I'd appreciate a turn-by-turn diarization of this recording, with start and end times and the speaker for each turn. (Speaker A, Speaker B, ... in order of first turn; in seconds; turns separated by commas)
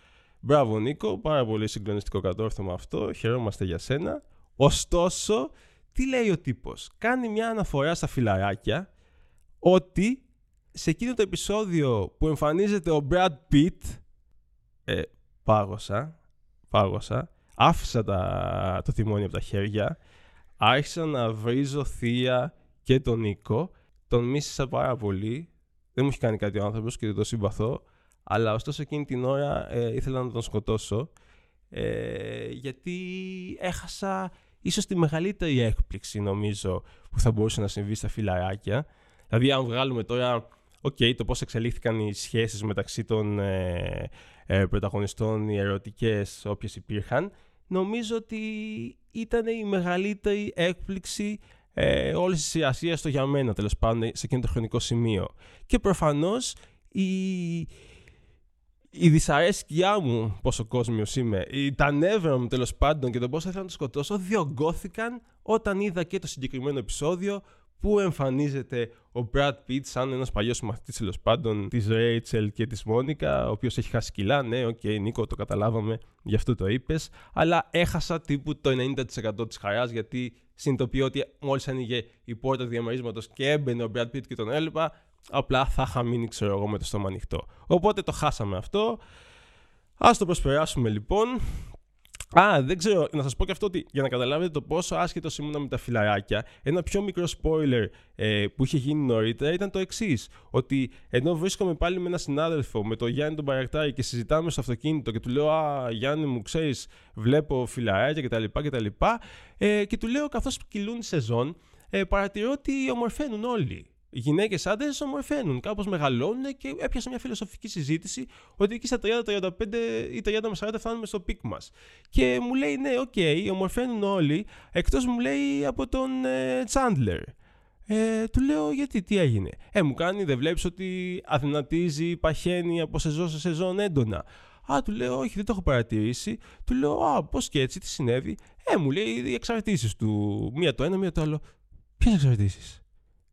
Speaker A: 0.4-8.8, Speaker A: 9.6-14.0, Speaker A: 14.9-16.1, Speaker A: 16.7-20.0, Speaker A: 20.6-31.1, Speaker A: 31.7-57.7, Speaker A: 58.9-89.0, Speaker A: 90.0-91.4, Speaker A: 92.3-127.3, Speaker A: 127.9-141.4, Speaker A: 142.0-142.8